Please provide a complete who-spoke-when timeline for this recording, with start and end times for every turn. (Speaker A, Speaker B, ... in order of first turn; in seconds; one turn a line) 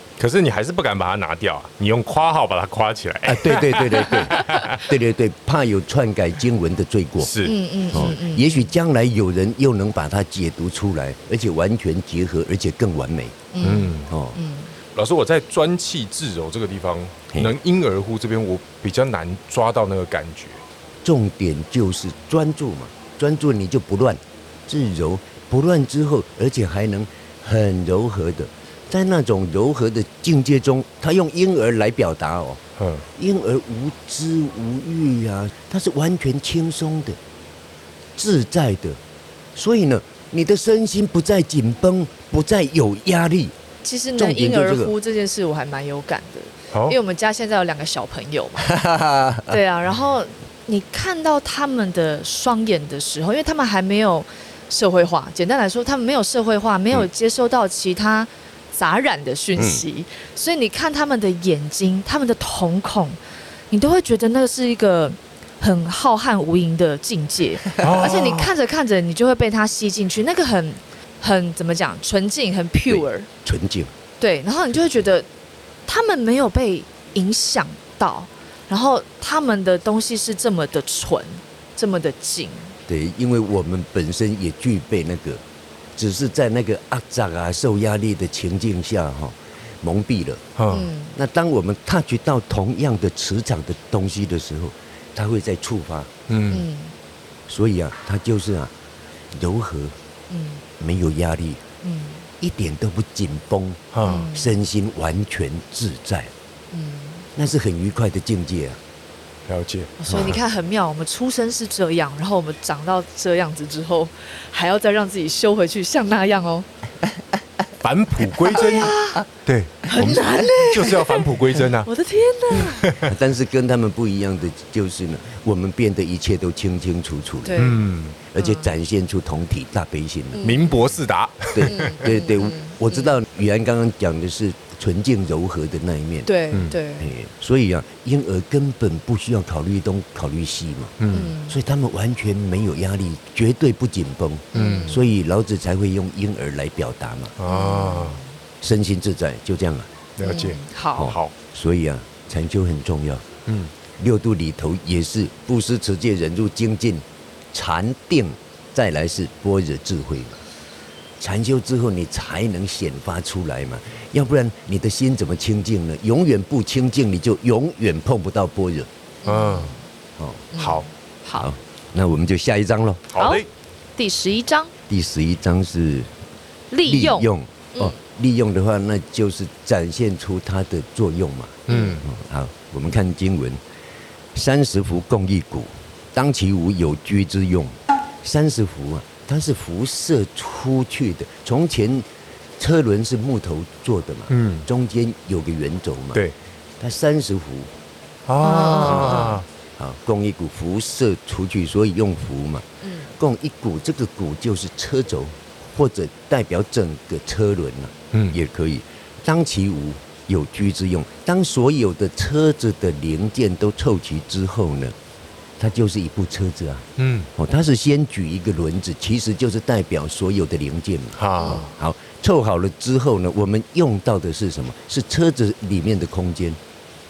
Speaker A: 0.2-4.9
Speaker B: 3.2-7.3
Speaker C: 4.3-4.7
Speaker A: 7.2-8.1
Speaker C: 7.4-8.7
Speaker B: 7.9-13.4
Speaker C: 13.5-14.7
Speaker A: 13.6-14.1
Speaker B: 14.0-14.4
Speaker A: 14.9-20.6
Speaker B: 21.0-32.6
Speaker A: 32.8-33.0
Speaker B: 33.1-37.2
Speaker B: 38.1-39.0
Speaker B: 39.5-43.5
Speaker C: 43.8-48.7
Speaker B: 44.1-44.9
Speaker B: 48.7-49.4
Speaker C: 49.5-63.2
Speaker B: 59.6-59.8
Speaker C: 63.7-73.3
Speaker A: 67.8-68.5
Speaker B: 72.9-73.9
Speaker C: 74.2-75.3
Speaker C: 75.8-82.8
Speaker B: 82.9-85.4
Speaker B: 86.0-90.4
Speaker A: 90.6-90.9
Speaker C: 90.7-91.1
Speaker B: 91.1-96.1
Speaker A: 96.3-96.6
Speaker C: 96.5-96.9
Speaker B: 97.5-98.7
Speaker B: 99.3-100.0
Speaker C: 100.3-100.6
Speaker B: 100.8-101.6
Speaker C: 101.8-102.2
Speaker B: 102.4-106.3
Speaker A: 103.9-104.2
Speaker C: 104.0-104.5
Speaker C: 106.7-107.3
Speaker B: 107.3-108.8
Speaker A: 109.5-109.9
Speaker C: 110.0-116.7
Speaker B: 110.1-110.4
Speaker A: 117.8-121.9
Speaker C: 118.5-119.2
Speaker C: 119.8-121.2
Speaker C: 121.8-122.9
Speaker A: 122.5-123.1
Speaker B: 123.0-127.6
Speaker C: 127.4-127.8
Speaker A: 127.6-128.2
Speaker B: 128.3-130.5
Speaker C: 128.4-128.7
Speaker C: 130.3-130.8
Speaker A: 130.4-131.9
Speaker B: 131.5-136.3
Speaker C: 131.7-133.1
Speaker C: 136.2-137.1
Speaker B: 137.0-147.3
Speaker A: 141.0-141.3
Speaker C: 141.1-141.6
Speaker C: 144.5-145.0
Speaker A: 144.5-145.0
Speaker A: 147.4-148.2
Speaker C: 147.4-148.4
Speaker B: 148.6-149.9
Speaker A: 150.2-151.3
Speaker C: 150.2-151.1
Speaker B: 151.0-153.2
Speaker A: 153.5-153.7
Speaker B: 154.0-160.4
Speaker B: 161.2-168.9
Speaker C: 169.2-169.8
Speaker A: 169.2-169.8
Speaker B: 170.2-170.5
Speaker C: 170.5-171.5
Speaker A: 170.6-170.8
Speaker B: 171.4-173.1
Speaker A: 173.1-173.5
Speaker C: 173.2-173.4
Speaker C: 173.9-174.7
Speaker B: 174.9-176.1
Speaker C: 176.7-178.0
Speaker B: 176.8-183.6
Speaker C: 181.7-182.0
Speaker A: 181.7-182.1
Speaker B: 184.3-192.1
Speaker B: 192.6-196.2
Speaker A: 194.3-194.7
Speaker B: 196.8-197.7
Speaker A: 198.2-199.4
Speaker C: 198.4-199.4
Speaker B: 198.9-202.7
Speaker C: 202.8-203.1
Speaker B: 203.2-214.9
Speaker A: 208.1-208.4
Speaker B: 215.6-226.6
Speaker A: 217.0-217.3
Speaker A: 221.2-221.7
Speaker C: 221.4-221.7